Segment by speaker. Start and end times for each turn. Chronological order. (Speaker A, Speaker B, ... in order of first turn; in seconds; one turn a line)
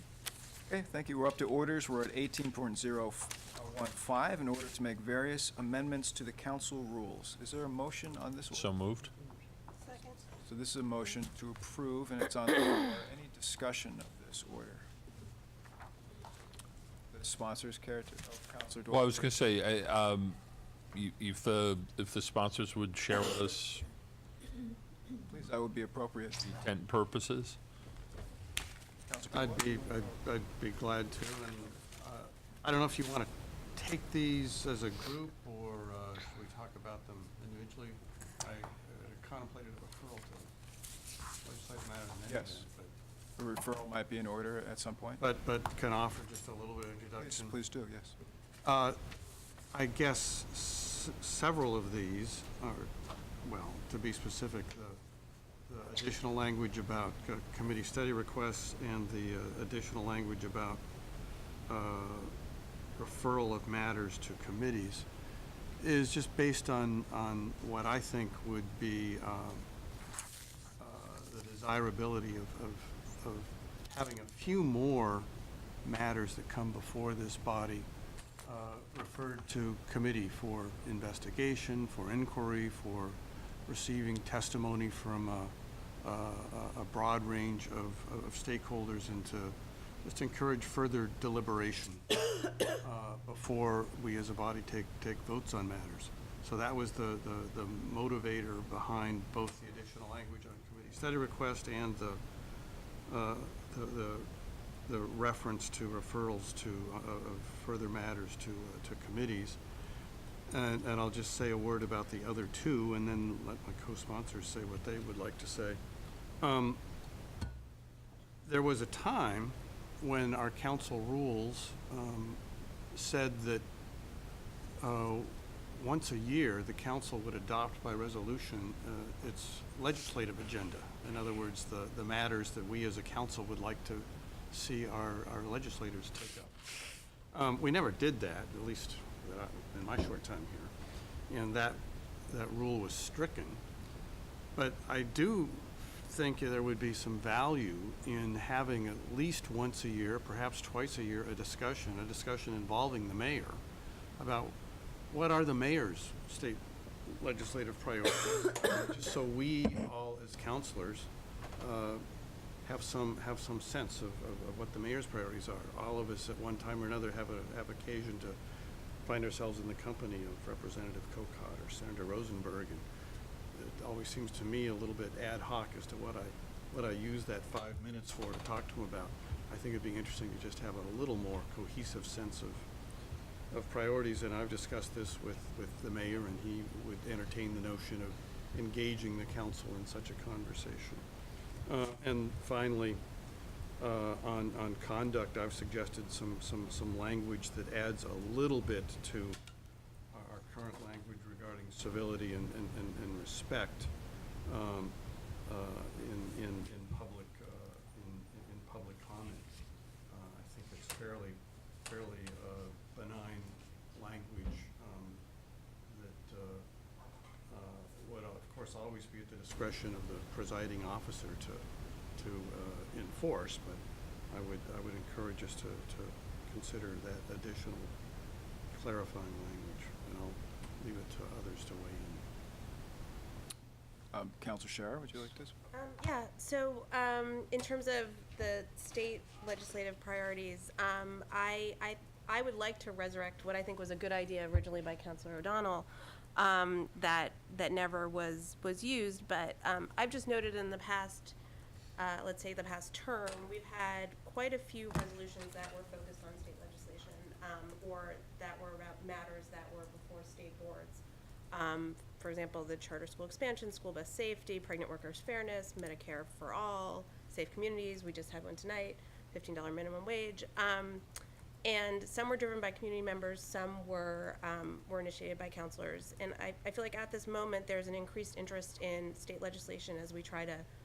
Speaker A: 0.7-8.7
Speaker B: 8.5-9.1
Speaker A: 10.4-14.8
Speaker A: 17.1-19.3
Speaker B: 18.9-20.4
Speaker B: 20.9-23.8
Speaker A: 25.3-26.4
Speaker B: 26.4-27.6
Speaker A: 29.1-30.1
Speaker C: 29.3-40.5
Speaker C: 41.4-42.9
Speaker A: 42.3-42.6
Speaker A: 43.4-45.2
Speaker C: 45.2-47.5
Speaker A: 47.2-48.1
Speaker C: 48.6-49.0
Speaker C: 49.7-52.9
Speaker C: 53.4-55.0
Speaker C: 55.7-60.8
Speaker C: 61.7-62.3
Speaker C: 63.0-65.0
Speaker C: 65.8-69.6
Speaker C: 70.8-75.3
Speaker C: 75.8-77.9
Speaker C: 78.4-92.2
Speaker C: 92.7-102.2
Speaker C: 103.1-104.3
Speaker C: 104.8-109.6
Speaker C: 110.5-115.8
Speaker C: 116.4-116.8
Speaker C: 118.4-122.4
Speaker C: 122.9-123.6
Speaker C: 124.8-136.7
Speaker C: 137.3-140.7
Speaker C: 141.3-143.6
Speaker C: 144.5-153.6
Speaker C: 154.2-154.5
Speaker C: 155.1-162.0
Speaker C: 162.6-168.4
Speaker C: 169.0-172.8
Speaker C: 173.5-182.6
Speaker C: 183.5-191.0
Speaker C: 191.7-193.0
Speaker C: 193.8-199.4
Speaker C: 200.1-203.9
Speaker C: 204.4-209.5
Speaker C: 210.1-215.2
Speaker C: 215.8-216.6
Speaker C: 217.5-221.6
Speaker C: 222.2-227.9
Speaker C: 228.7-232.2
Speaker A: 234.1-235.5
Speaker D: 235.7-251.3
Speaker D: 252.0-271.0
Speaker D: 271.6-280.6